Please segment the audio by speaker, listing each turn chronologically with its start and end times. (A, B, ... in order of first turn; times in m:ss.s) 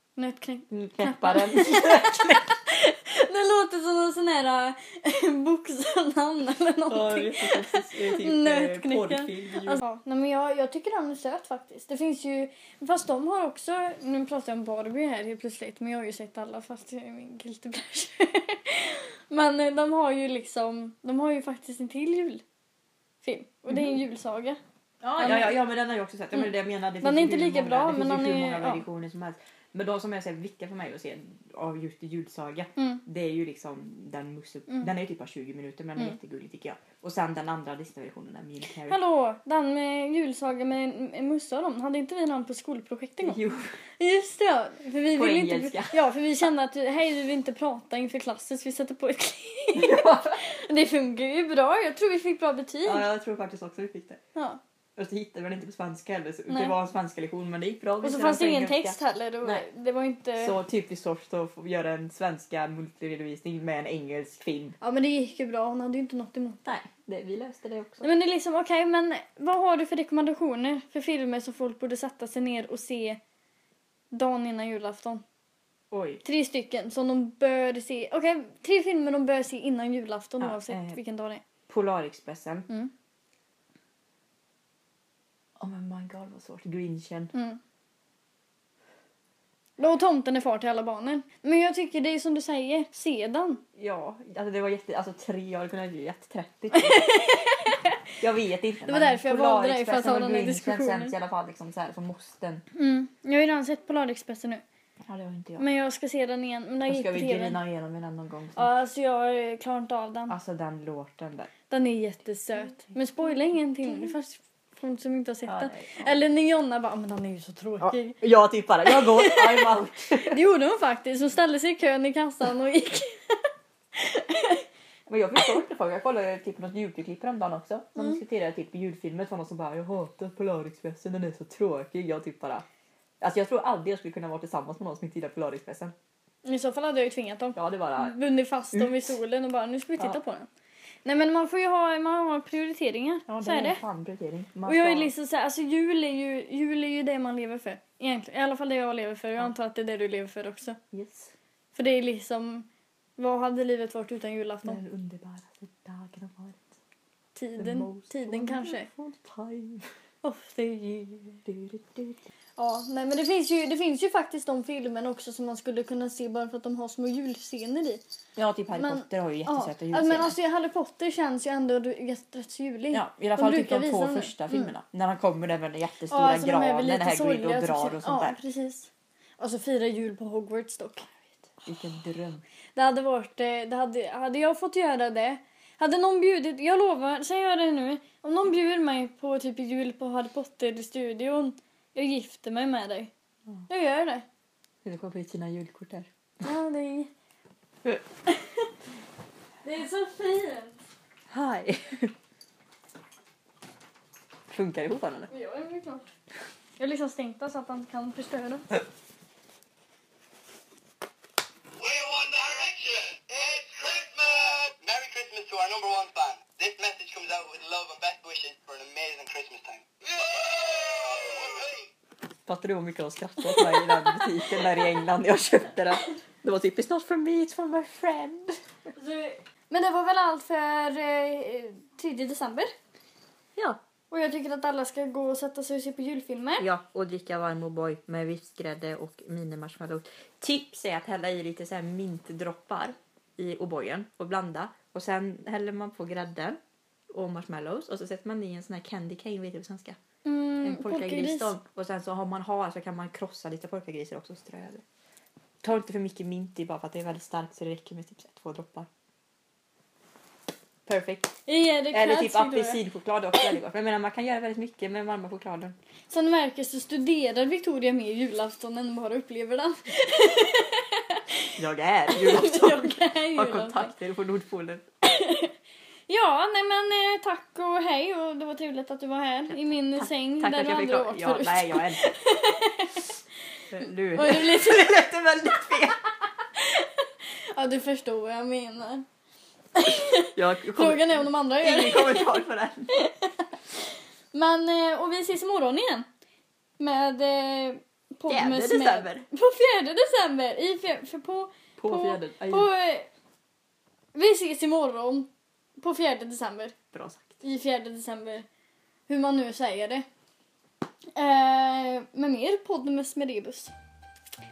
0:00.2-0:22.4 A
0:00.7-0:02.5 B
0:06.9-0:09.8 B
0:23.2-0:24.6 A
0:25.0-0:39.0 B
0:25.2-0:25.6 A
0:27.0-0:28.8 A
0:38.9-0:43.4 A
0:43.2-0:43.7 B
0:44.0-0:53.1 A
0:45.1-0:46.0 B
0:49.7-0:50.4 B
0:52.8-0:54.2 B
0:54.4-0:54.6 A
0:55.0-0:59.6 B
0:56.5-0:56.8 A
0:58.0-1:00.6 A
1:00.4-1:04.8 B
1:04.8-1:06.6 A
1:06.6-1:08.1 B
1:08.0-1:13.2 A
1:14.1-1:15.2 A
1:15.9-1:16.2 B
1:16.2-1:21.4 A
1:20.4-1:21.0 B
1:21.7-1:22.7 B
1:25.6-1:27.3 B
1:27.3-1:27.6 A
1:29.8-1:33.6 A
1:33.8-1:37.4 B
1:36.7-1:38.0 A
1:38.2-1:42.6 B
1:38.9-1:41.1 A
1:42.7-1:44.6 A
1:45.1-1:45.7 B
1:45.6-1:47.6 A
1:46.9-1:48.7 B
1:48.6-1:50.4 A
1:50.3-1:51.5 B
1:51.7-1:58.2 A
1:55.5-1:56.2 B
1:57.8-2:00.4 B
1:58.8-1:59.7 A
2:00.3-2:04.6 A
2:05.1-2:12.6 B
2:13.2-2:15.9 B
2:16.4-2:20.5 A
2:17.6-2:18.2 B
2:18.7-2:19.1 B
2:21.0-2:23.8 A
2:23.3-2:25.1 B
2:24.7-2:30.8 A
2:30.9-2:31.3 B
2:31.8-2:34.8 A
2:34.6-2:36.8 B
2:37.4-2:38.9 A
2:37.6-2:39.9 B
2:40.2-2:41.4 A
2:41.4-2:42.2 B
2:42.6-2:48.0 A
2:48.4-2:50.4 B
2:48.8-2:54.7 A
2:52.9-2:58.4 B
2:56.1-3:01.1 A
3:01.5-3:02.4 B
3:02.8-3:13.1 A
3:13.7-3:14.2 A
3:14.8-3:16.1 B
3:16.4-3:17.1 A
3:18.3-3:18.7 A
3:19.6-3:20.8 A
3:21.3-3:22.1 B
3:24.5-3:25.3 B
3:25.3-3:26.1 A
3:26.8-3:28.8 A
3:31.8-3:41.8 C
3:42.5-3:48.6 B
3:49.0-3:52.7 A
3:54.1-3:56.7 A
3:56.6-4:06.6 B
4:07.1-4:10.0 B
4:10.2-4:11.5 A
4:10.6-4:14.8 B
4:15.6-4:18.9 B
4:20.9-4:21.3 B
4:21.5-4:22.8 A
4:21.9-4:25.8 B
4:26.1-4:31.5 A
4:31.6-4:34.8 B
4:32.1-4:33.9 A
4:35.0-4:35.5 A
4:36.1-4:43.1 A
4:39.5-4:42.0 B
4:43.7-4:46.0 B
4:44.1-4:45.0 A
4:46.6-4:49.1 A
4:49.8-4:53.8 A
4:50.4-4:52.9 B
4:54.3-4:56.1 A
4:56.8-5:03.1 A
4:58.3-4:59.3 B
5:01.8-5:02.7 B
5:04.1-5:06.8 A
5:06.9-5:07.4 B
5:07.4-5:08.5 A
5:09.1-5:10.0 A
5:11.2-5:13.7 A